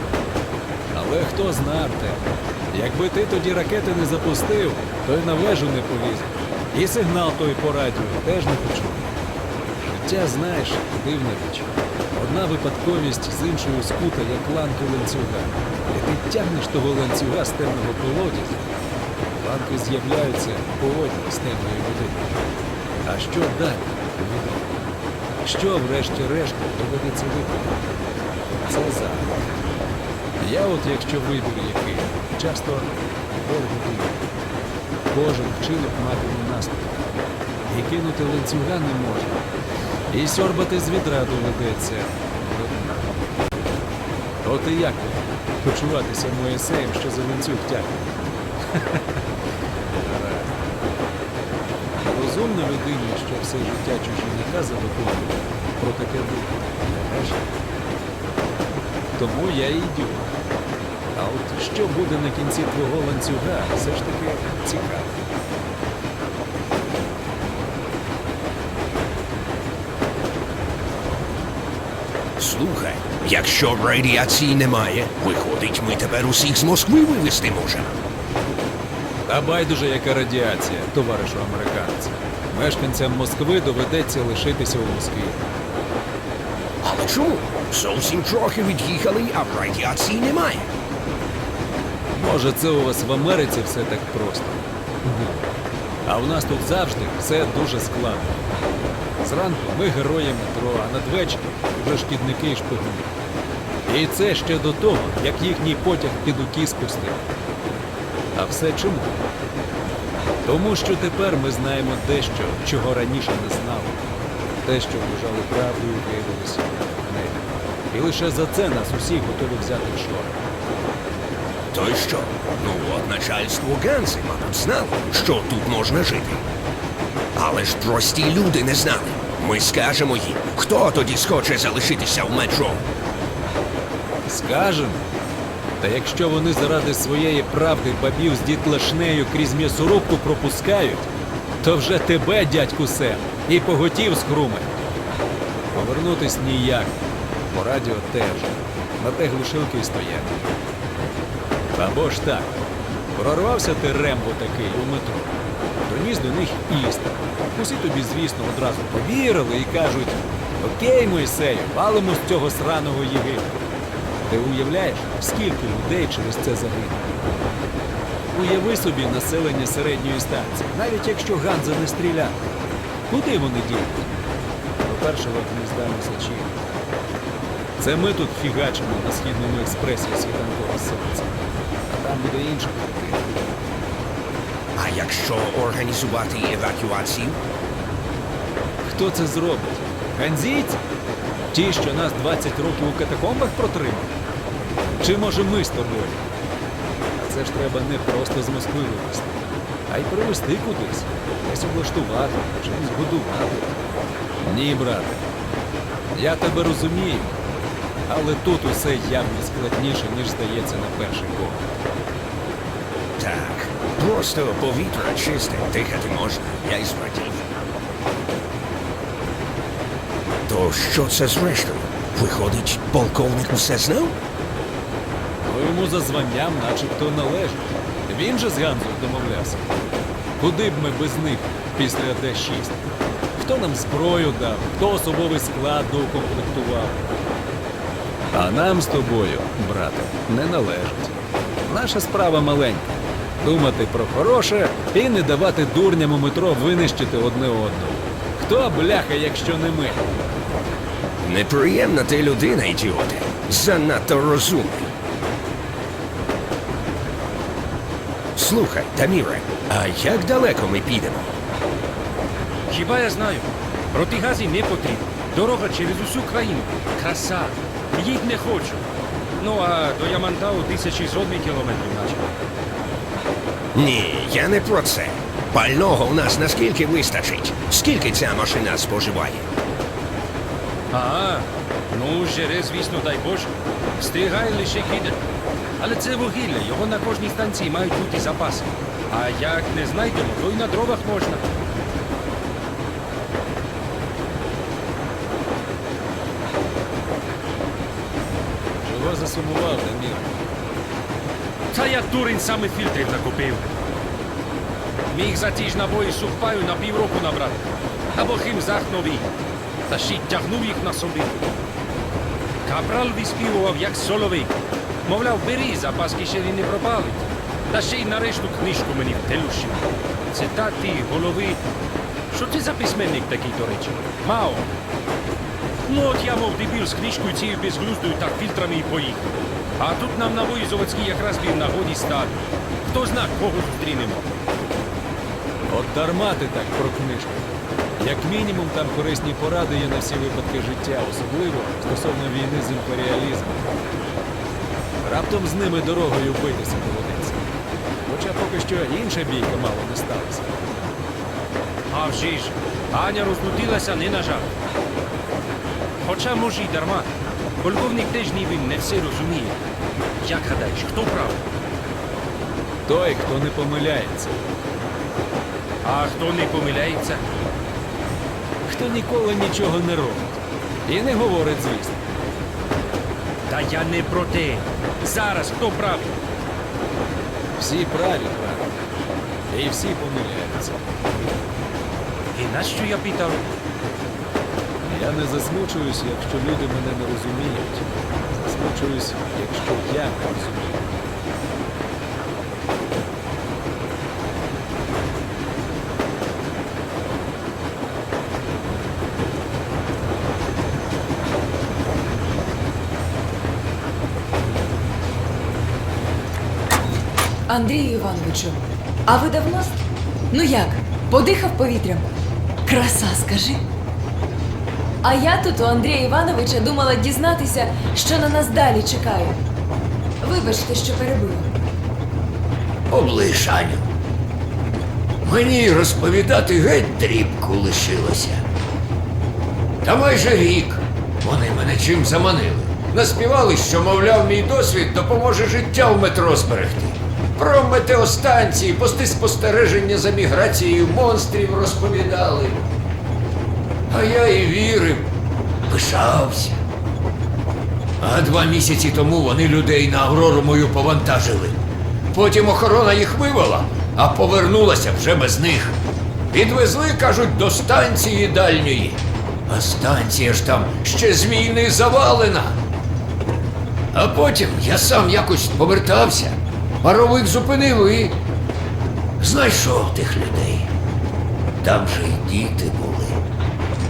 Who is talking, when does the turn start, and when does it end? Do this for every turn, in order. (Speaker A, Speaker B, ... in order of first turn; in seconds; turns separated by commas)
Speaker A: 0.9-9.1, Speaker A: 9.8-18.7, Speaker A: 19.4-22.3, Speaker A: 23.0-24.8, Speaker A: 25.4-27.7, Speaker A: 28.6-29.5, Speaker A: 30.4-34.2, Speaker A: 35.1-37.0, Speaker A: 37.7-39.4, Speaker A: 40.1-43.1, Speaker A: 44.4-48.1, Speaker A: 48.7-49.0, Speaker A: 50.0-50.6, Speaker A: 52.0-57.5, Speaker A: 59.1-60.3, Speaker A: 61.1-65.2, Speaker B: 72.4-78.0, Speaker A: 79.3-85.5, Speaker B: 86.8-90.7, Speaker A: 92.1-95.5, Speaker A: 96.0-98.4, Speaker A: 99.2-103.1, Speaker A: 103.9-107.2, Speaker A: 108.3-109.2, Speaker A: 110.4-114.0, Speaker A: 114.6-120.4, Speaker B: 121.7-126.4, Speaker B: 127.3-132.8, Speaker A: 134.3-135.0, Speaker A: 135.8-141.1, Speaker A: 141.6-144.9, Speaker A: 145.7-150.4, Speaker A: 151.7-152.6, Speaker A: 153.1-155.3, Speaker A: 155.8-163.6, Speaker A: 164.3-167.1, Speaker A: 168.3-172.4, Speaker A: 173.1-174.1, Speaker A: 174.8-176.8, Speaker A: 177.8-181.3, Speaker A: 181.9-183.4, Speaker B: 184.8-187.4, Speaker A: 188.8-190.8, Speaker A: 191.5-194.1, Speaker A: 195.0-196.2, Speaker A: 197.2-199.4, Speaker A: 199.9-203.8, Speaker A: 204.4-205.2, Speaker A: 206.1-207.4, Speaker A: 208.1-211.7, Speaker B: 213.2-217.6, Speaker B: 220.5-224.1, Speaker A: 225.4-229.7, Speaker A: 230.4-232.8, Speaker A: 233.3-237.0, Speaker A: 238.3-250.1, Speaker B: 251.2-254.9, Speaker B: 258.4-261.3, Speaker C: 262.7-268.9, Speaker C: 269.4-272.3, Speaker B: 273.7-279.5, Speaker C: 280.9-285.2, Speaker C: 285.8-291.4, Speaker A: 298.8-300.4, Speaker C: 301.7-303.7, Speaker C: 305.1-307.6, Speaker C: 308.1-309.3, Speaker C: 309.9-311.4, Speaker C: 312.6-314.5, Speaker C: 315.1-321.6, Speaker C: 322.3-324.7, Speaker C: 325.9-334.3, Speaker A: 335.7-337.4, Speaker A: 338.0-343.7, Speaker A: 345.0-347.5, Speaker A: 348.1-350.6, Speaker C: 351.9-354.5, Speaker C: 356.0-357.1, Speaker C: 357.6-359.6, Speaker C: 360.2-361.4, Speaker A: 362.9-364.4, Speaker C: 365.8-367.2, Speaker A: 368.6-372.0, Speaker C: 373.5-376.2, Speaker A: 377.6-378.8, Speaker A: 379.5-380.8, Speaker C: 382.3-383.4, Speaker A: 384.8-391.0, Speaker D: 407.5-409.8, Speaker D: 410.3-412.1, Speaker D: 412.6-413.6, Speaker D: 415.0-419.4, Speaker D: 420.2-421.5, Speaker E: 422.9-423.8, Speaker E: 425.2-428.4, Speaker E: 429.8-442.6, Speaker E: 443.9-445.1, Speaker E: 445.7-446.6, Speaker E: 448.0-451.6, Speaker E: 452.1-455.8, Speaker E: 456.3-462.6, Speaker E: 463.9-468.2, Speaker E: 469.2-470.7, Speaker E: 471.6-473.2